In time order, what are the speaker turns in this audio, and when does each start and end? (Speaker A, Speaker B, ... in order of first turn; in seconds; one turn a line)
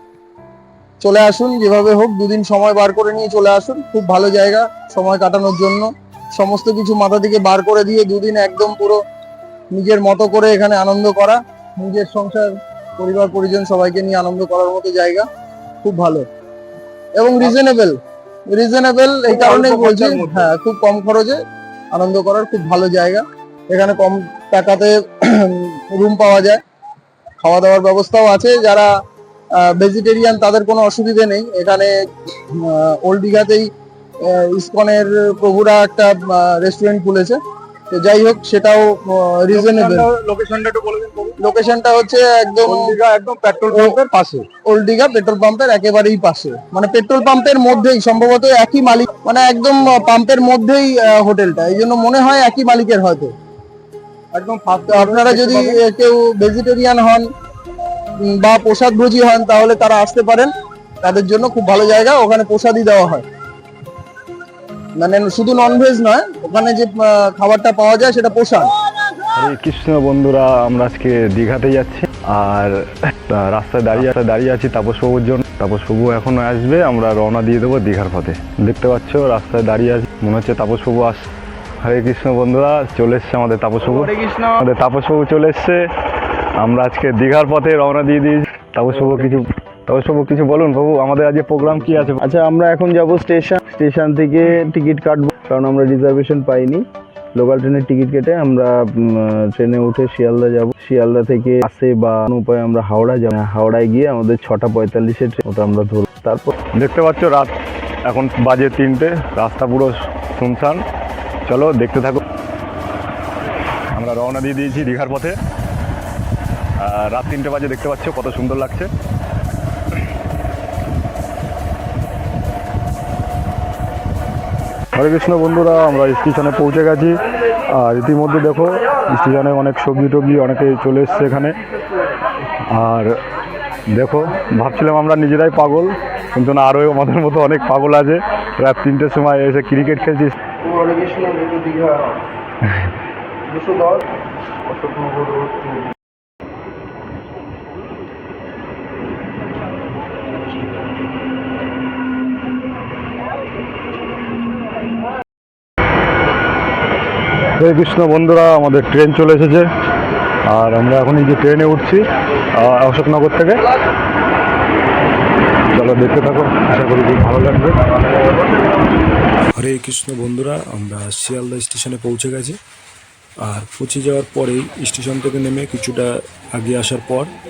Speaker A: 1.0-9.0
Speaker A: 9.7-15.3
Speaker A: 15.8-16.3
Speaker A: 17.2-21.4
Speaker B: 19.5-20.0
Speaker A: 21.9-26.6
Speaker A: 27.4-28.9
Speaker A: 29.6-31.9
Speaker A: 32.5-33.7
Speaker A: 34.2-37.4
Speaker A: 37.9-40.1
Speaker B: 39.5-41.4
Speaker A: 41.4-43.0
Speaker B: 42.6-44.5
Speaker A: 43.7-44.0
Speaker A: 44.7-53.3
Speaker B: 54.4-55.8
Speaker A: 54.9-57.3
Speaker A: 58.2-63.2
Speaker A: 65.0-68.7
Speaker C: 69.4-81.2
Speaker C: 81.8-85.8
Speaker A: 83.8-84.5
Speaker C: 86.6-92.2
Speaker D: 92.3-96.8
Speaker A: 92.8-95.8
Speaker D: 97.4-98.8
Speaker D: 99.3-106.5
Speaker A: 100.6-100.9
Speaker A: 101.5-101.8
Speaker C: 106.8-107.5
Speaker C: 108.1-110.8
Speaker C: 111.5-112.2
Speaker C: 114.0-115.4
Speaker C: 116.8-118.9
Speaker C: 125.0-127.2
Speaker C: 127.7-131.6
Speaker C: 132.7-133.2
Speaker C: 133.9-140.3
Speaker A: 140.6-142.2
Speaker A: 143.5-144.0
Speaker A: 144.7-145.7
Speaker C: 157.6-159.7
Speaker C: 160.5-163.6
Speaker C: 165.7-167.8
Speaker E: 169.6-172.6
Speaker E: 173.4-177.3